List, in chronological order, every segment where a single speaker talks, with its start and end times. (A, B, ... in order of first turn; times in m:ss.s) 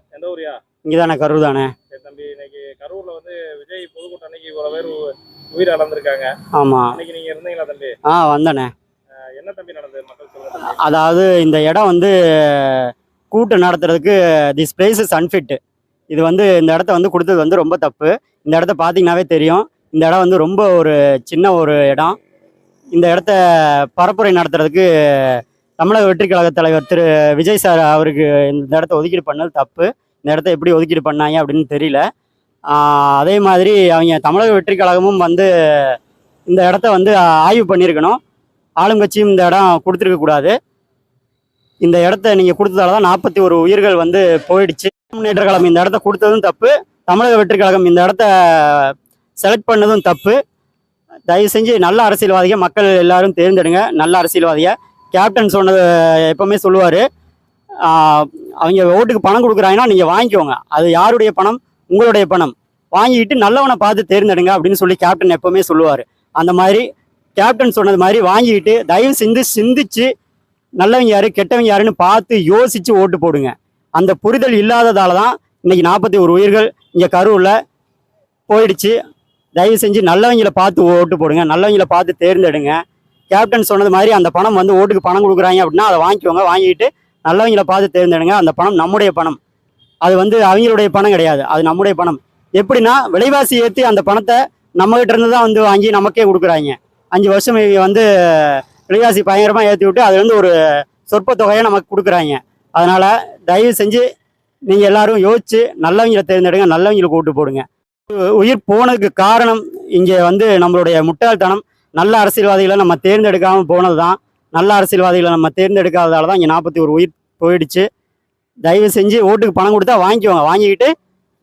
0:00.1-0:00.6 A
0:00.8-0:01.7 B
0:01.9-0:06.3 A
0:06.5-0:07.0 B
0:06.9-0:07.9 A
0:08.1-0:08.7 B
0:09.3-0:10.8 A
0:10.6-0:15.6 B
0:16.1-0:22.2 B
0:22.9-0:32.0 B
0:32.7-0:36.0 B
0:36.5-0:38.2 B
0:38.8-0:40.5 B
0:41.8-0:50.4 B
0:51.3-0:57.0 B
0:57.8-1:06.8 B
1:07.4-1:10.1 B
1:10.8-1:17.5 B
1:18.5-1:18.9 B
1:19.6-1:22.8 B
1:23.3-1:29.4 B
1:30.0-1:40.5 B
1:41.0-1:44.0 B
1:44.7-1:57.8 B
1:58.6-2:00.9 B